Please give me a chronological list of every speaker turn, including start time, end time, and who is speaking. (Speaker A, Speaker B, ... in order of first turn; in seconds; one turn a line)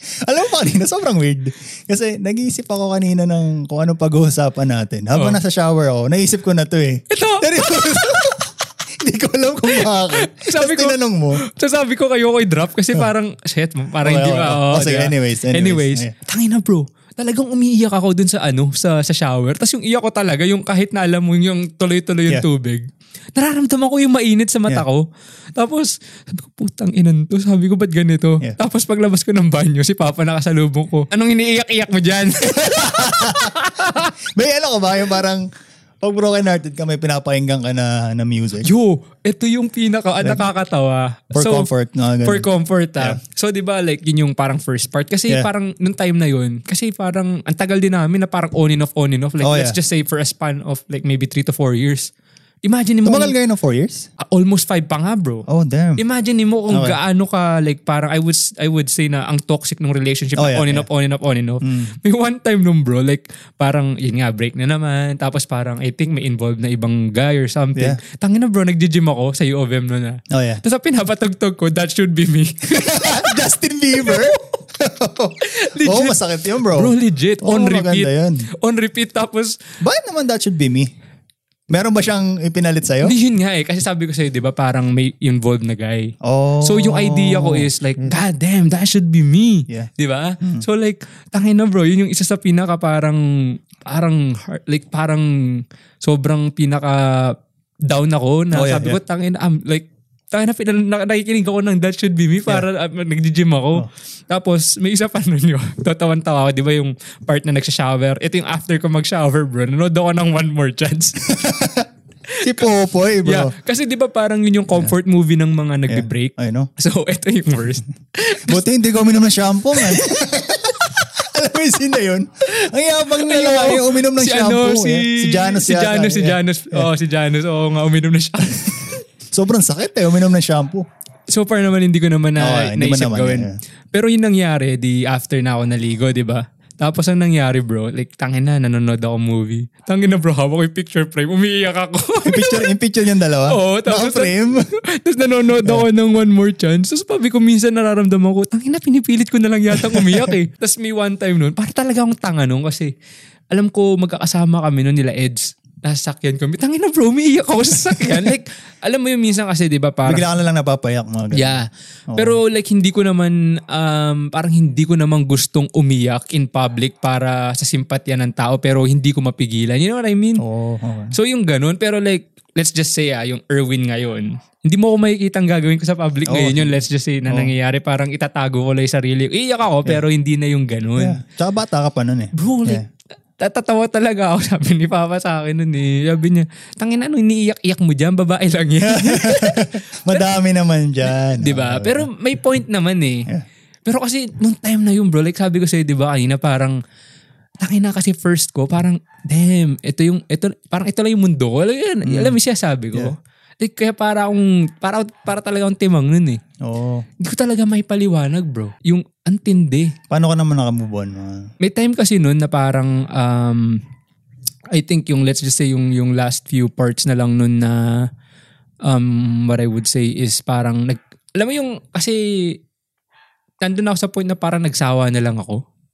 Speaker A: 0.2-8.5
Speaker B: 7.1-8.2
Speaker A: 9.0-11.4
Speaker B: 9.7-34.1
Speaker A: 14.0-16.1
Speaker A: 32.5-33.5
Speaker A: 34.3-35.5
Speaker A: 36.0-38.7
Speaker B: 38.6-41.7
Speaker A: 41.3-42.5
Speaker B: 42.2-52.1
Speaker A: 49.4-49.8
Speaker B: 52.6-53.3
Speaker A: 53.0-54.1
Speaker B: 54.2-55.4
Speaker A: 55.5-56.0
Speaker B: 56.0-73.4
Speaker A: 56.7-57.0
Speaker A: 60.4-60.9
Speaker A: 61.6-61.9
Speaker A: 70.3-70.6
Speaker A: 72.8-78.5
Speaker B: 74.0-74.2
Speaker B: 75.4-79.5
Speaker A: 79.8-80.9
Speaker A: 81.7-83.1
Speaker B: 83.0-111.2
Speaker A: 86.2-88.2
Speaker A: 98.5-99.0
Speaker A: 111.2-111.9
Speaker B: 112.4-112.7
Speaker A: 112.4-113.5
Speaker B: 113.2-118.6
Speaker A: 115.9-116.7
Speaker A: 118.5-126.9
Speaker B: 119.7-120.1
Speaker B: 123.1-129.0
Speaker A: 129.3-130.8
Speaker B: 131.3-142.7
Speaker A: 132.4-133.6
Speaker A: 142.2-144.6
Speaker B: 143.5-144.3
Speaker B: 144.9-152.9
Speaker A: 149.8-150.3
Speaker B: 153.5-160.2
Speaker A: 160.1-161.6
Speaker B: 161.3-170.4
Speaker A: 162.1-162.4
Speaker A: 170.4-171.1
Speaker B: 171.1-181.2
Speaker A: 176.3-177.5
Speaker A: 181.0-182.8
Speaker B: 182.3-182.8
Speaker B: 183.4-190.3
Speaker A: 188.8-192.1
Speaker B: 191.3-193.3
Speaker B: 193.8-196.8
Speaker B: 197.6-206.4
Speaker A: 202.1-202.3
Speaker A: 206.6-207.1
Speaker B: 207.2-209.9
Speaker A: 210.1-211.5
Speaker B: 211.6-213.8
Speaker B: 214.7-218.1
Speaker B: 218.8-222.6
Speaker B: 223.6-225.6